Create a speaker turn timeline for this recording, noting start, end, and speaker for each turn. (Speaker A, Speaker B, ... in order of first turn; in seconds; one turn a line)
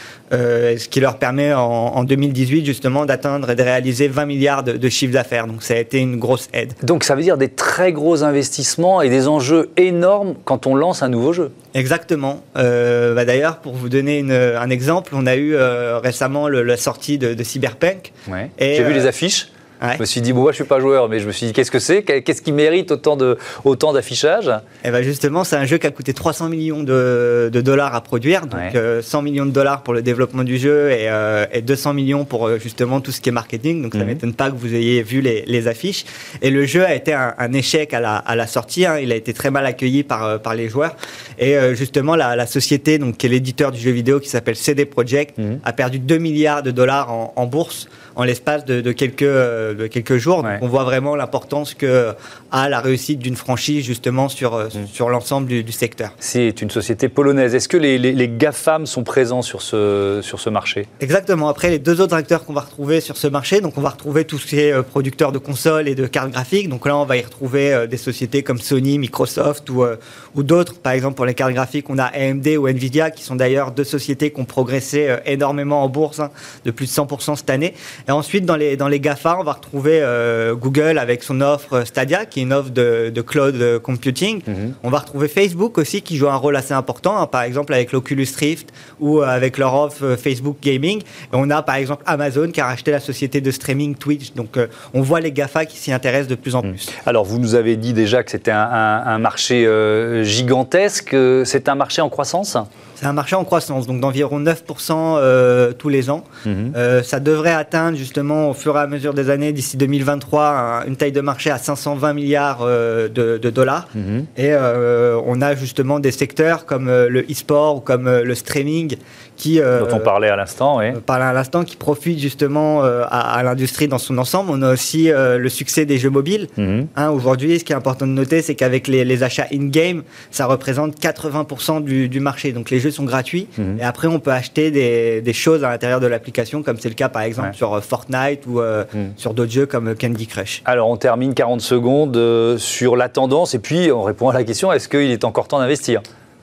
Speaker A: 0.3-6.7
Speaker B: 6.8-11.5
Speaker A: 11.7-19.1
Speaker B: 18.3-24.6
Speaker A: 24.8-56.1
Speaker B: 33.9-34.2
Speaker B: 56.2-60.9
Speaker A: 61.0-96.8
Speaker B: 84.5-84.7
Speaker B: 96.7-102.7
Speaker A: 103.0-120.1
Speaker B: 106.4-106.7
Speaker B: 114.0-114.3
Speaker B: 119.8-121.0
Speaker A: 120.9-140.6
Speaker B: 126.6-126.9
Speaker B: 140.6-146.0